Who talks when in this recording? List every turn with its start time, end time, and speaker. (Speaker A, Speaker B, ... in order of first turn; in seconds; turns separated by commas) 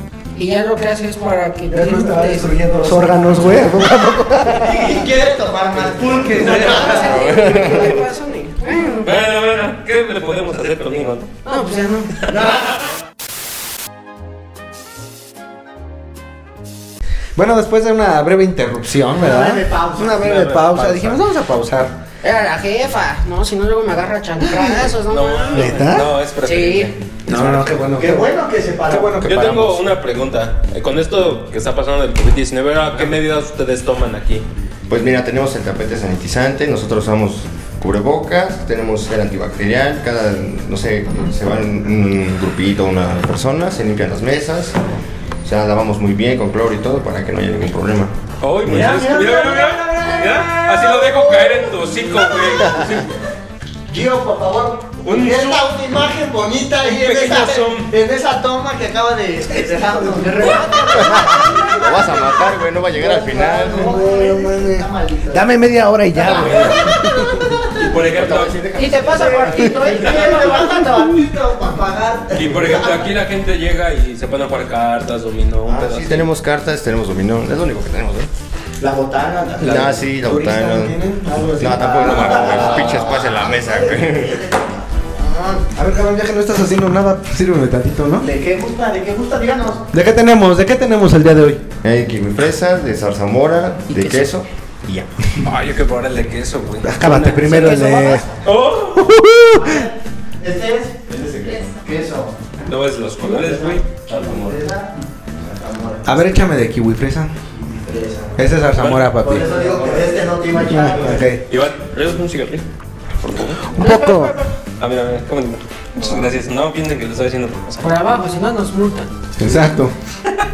Speaker A: 0.3-2.5, Speaker B: 1.7-5.0, Speaker C: 4.5-7.2, Speaker B: 6.1-7.0, Speaker A: 6.4-9.1, Speaker D: 7.0-8.0, Speaker E: 9.0-11.3, Speaker A: 11.4-12.3, Speaker C: 12.3-12.8, Speaker B: 17.4-21.9, Speaker C: 19.1-21.0, Speaker E: 20.3-20.6, Speaker A: 22.2-25.9, Speaker B: 24.4-24.9, Speaker E: 25.1-27.7, Speaker B: 25.5-26.1, Speaker A: 26.4-26.9, Speaker B: 27.3-28.3, Speaker C: 27.9-29.2, Speaker B: 28.9-29.8, Speaker E: 29.2-34.4, Speaker D: 34.9-44.8, Speaker D: 45.4-48.1, Speaker E: 48.4-53.1, Speaker C: 48.6-53.0, Speaker D: 52.6-52.9, Speaker C: 53.9-62.4, Speaker E: 55.0-55.7, Speaker E: 56.9-57.9, Speaker B: 59.8-60.5, Speaker A: 60.4-62.1, Speaker D: 61.7-64.0, Speaker C: 63.0-65.5, Speaker B: 63.7-67.6, Speaker C: 66.1-68.0, Speaker E: 66.2-66.8, Speaker E: 67.8-68.6, Speaker D: 68.0-69.8, Speaker A: 68.8-71.0, Speaker C: 69.1-73.1, Speaker E: 69.9-70.5, Speaker E: 72.3-76.2, Speaker D: 75.7-78.3, Speaker C: 78.8-80.0, Speaker D: 79.6-81.0, Speaker B: 79.6-82.6, Speaker D: 81.6-84.4, Speaker C: 81.6-85.7, Speaker E: 82.3-83.0, Speaker B: 85.8-88.2, Speaker C: 88.2-89.9, Speaker B: 89.9-91.6, Speaker D: 91.8-95.1, Speaker A: 93.9-94.2, Speaker E: 95.4-97.7, Speaker B: 96.8-98.2, Speaker C: 97.4-98.3, Speaker A: 97.4-98.2, Speaker E: 98.4-99.1, Speaker B: 98.9-99.8, Speaker C: 99.5-102.4, Speaker D: 101.1-101.6, Speaker E: 102.7-103.8, Speaker C: 103.2-106.2, Speaker D: 104.1-104.6, Speaker B: 106.0-107.3, Speaker C: 107.6-108.4, Speaker B: 108.4-109.5, Speaker E: 108.7-110.2, Speaker C: 109.2-111.3, Speaker B: 110.5-111.4, Speaker E: 111.5-112.6, Speaker D: 113.2-113.7, Speaker E: 113.3-113.7, Speaker B: 113.7-114.3, Speaker A: 113.8-114.5, Speaker E: 114.8-117.9, Speaker D: 116.0-116.3, Speaker A: 117.8-119.1, Speaker B: 119.4-119.9